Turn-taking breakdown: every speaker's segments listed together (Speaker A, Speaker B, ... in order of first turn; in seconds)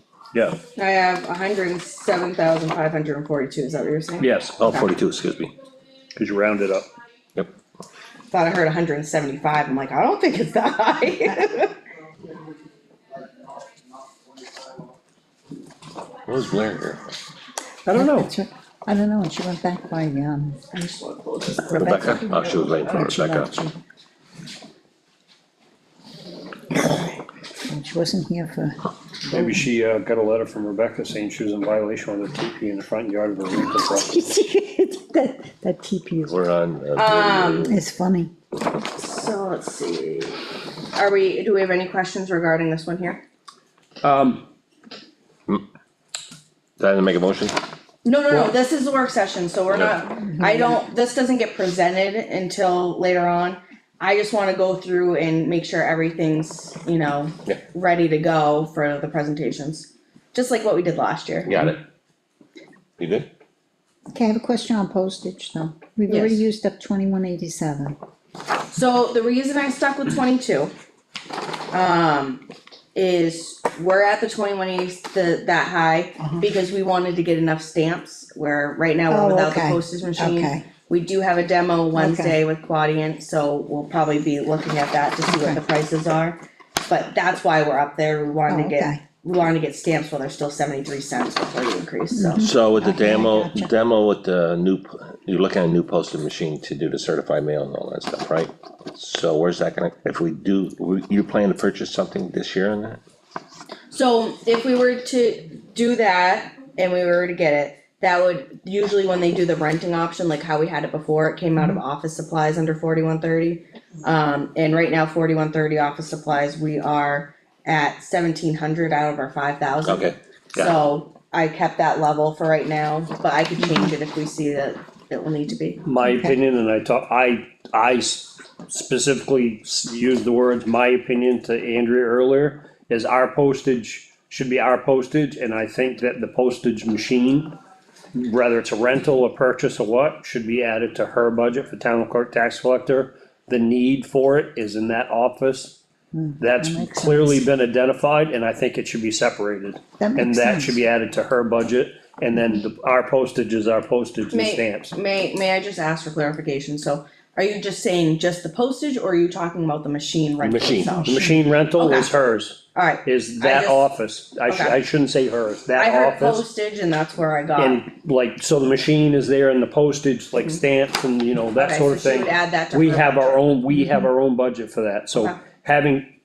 Speaker A: 0.3-0.6, 4.2-4.6, 6.1-6.9, 17.8-18.3, 29.3-34.2, 44.0-44.4, 125.8-137.6, 138.1-145.8, 146.4-154.9, 161.0-166.4, 167.6-176.1
Speaker B: 0.8-4.3, 8.3-11.8, 20.7-21.8, 37.0-37.8, 38.9-40.4, 40.9-43.2, 48.0-61.7, 66.1-66.4, 68.7-70.7, 71.7-92.5, 103.9-125.8, 154.3-162.1, 162.7-163.9, 164.4-164.8, 165.8-167.8, 170.3-170.6, 171.5-173.4, 175.1-175.4
Speaker C: 4.6-5.5, 16.3-17.0, 21.8-23.5, 36.3-37.8, 46.8-47.6, 61.5-61.8, 63.0-63.3, 92.4-103.0, 119.8-120.7, 160.4-161.0
Speaker D: 17.9-20.6, 21.5-23.8, 26.8-27.1, 27.6-28.9, 33.7-36.4, 37.6-38.3, 50.3-50.8, 64.1-68.0, 79.1-80.6, 81.9-82.4, 85.3-85.6, 88.5-89.0, 92.1-93.7, 123.6-123.8, 146.1-147.4, 150.0-150.8, 161.0-161.3, 173.7-174.1